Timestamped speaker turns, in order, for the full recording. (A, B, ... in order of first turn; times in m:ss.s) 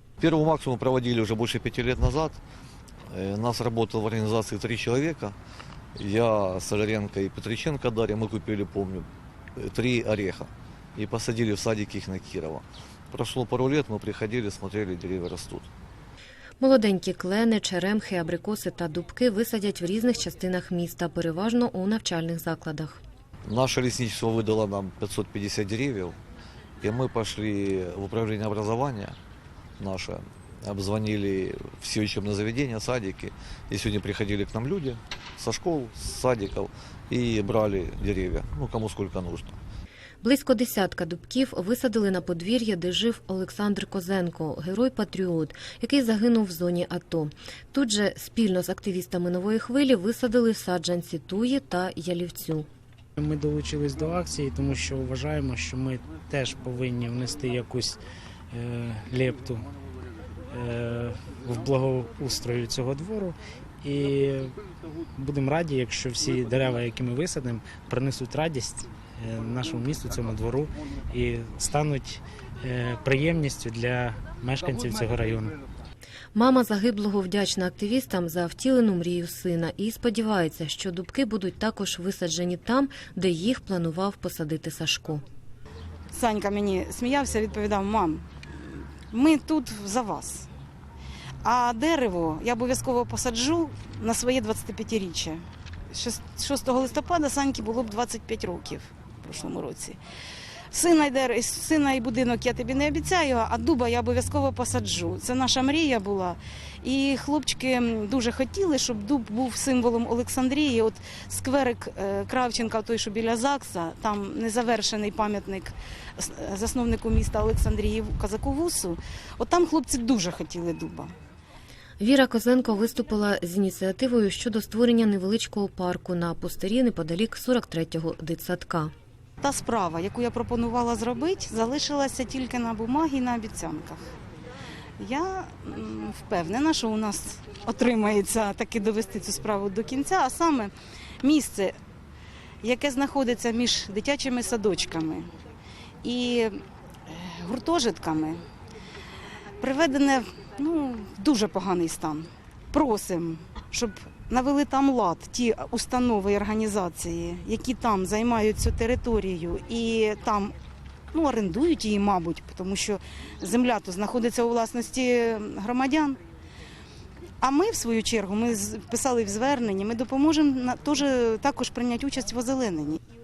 0:00.2-0:02.4 A
0:03.1-0:05.4 A
0:06.0-0:15.7 A
0:16.6-0:23.0 B
0:23.4-0:26.2 A
0:26.8-0:29.2 A
0:29.8-0:39.6 A
0:40.2-0:52.7 B
0:53.2-0:59.7 C
1:00.5-1:04.6 C
1:05.2-1:15.6 C
1:16.3-1:25.2 B
1:26.1-1:30.5 D
1:31.4-1:40.0 D
1:40.7-2:01.1 D
2:02.0-2:08.9 B
2:09.4-2:14.1 D
2:15.0-2:20.7 D
2:21.2-2:21.8 D
2:22.6-2:25.3 D
2:26.0-2:28.4 D
2:29.6-2:40.5 D
2:41.1-2:46.2 D
2:47.4-2:53.0 D